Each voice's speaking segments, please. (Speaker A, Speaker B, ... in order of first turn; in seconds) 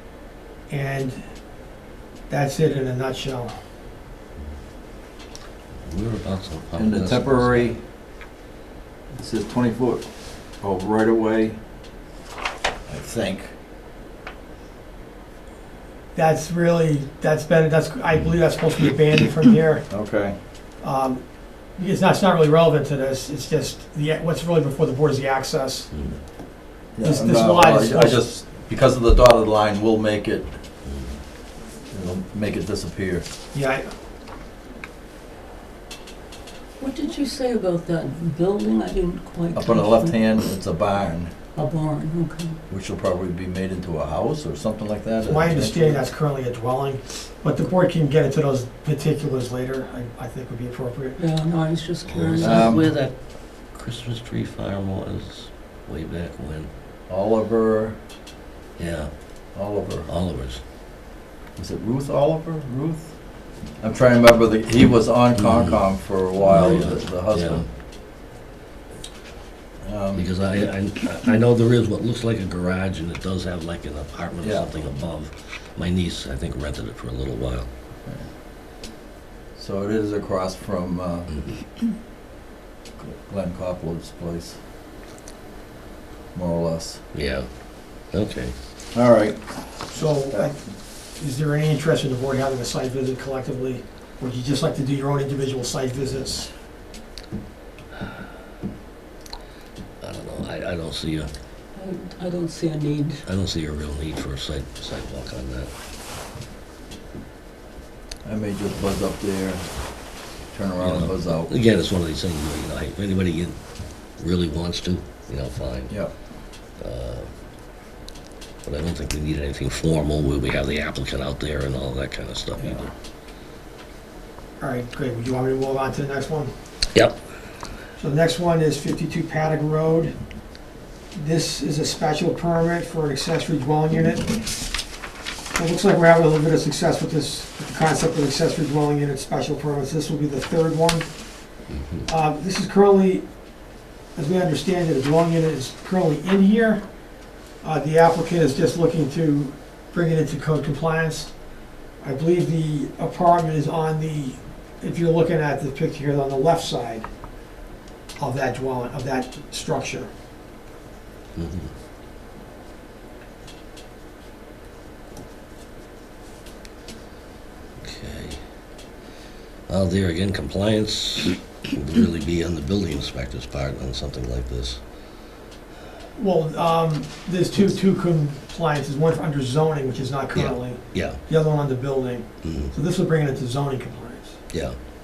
Speaker A: 0.7-1.2, 2.3-3.5, 16.1-19.9, 20.8-25.9, 27.0-28.2, 33.5-33.9, 45.2-51.2, 89.9-90.6, 91.2-96.5, 124.6-126.5, 128.0-130.1, 131.1-134.5, 135.5-141.1, 142.1-143.3, 144.1-146.8, 147.6-151.3, 152.0-157.1, 158.2-160.1, 176.2-184.4
Speaker B: 5.8-7.7, 25.9-26.2, 30.9-31.2, 52.1-56.7, 58.8-59.1, 60.0-60.6, 65.4-65.9, 66.5-67.6, 70.1-77.7, 87.1-87.5, 88.1-88.5, 100.0-101.3, 103.2-105.7, 110.8-116.0, 116.8-117.3, 118.6-122.9, 126.9-127.2, 141.7-142.0, 161.3-161.7, 167.8-168.4, 169.7-174.8, 180.3-181.2, 182.4-182.7, 184.5-184.8
Speaker C: 6.8-7.8, 9.1-10.1, 10.6-11.6, 12.9-13.5, 19.9-20.3, 26.9-30.5, 31.9-33.2, 39.5-41.3, 42.7-46.0, 52.3-52.9, 57.1-58.0, 59.5-60.1, 61.5-63.1, 63.8-67.7, 69.8-70.2, 74.4-74.7, 79.5-81.3, 83.0-84.6, 86.3-87.0, 88.9-90.5, 108.2-109.7, 110.5-111.5
Speaker D: 36.8-40.2, 41.5-42.6, 51.2-53.1, 101.7-103.2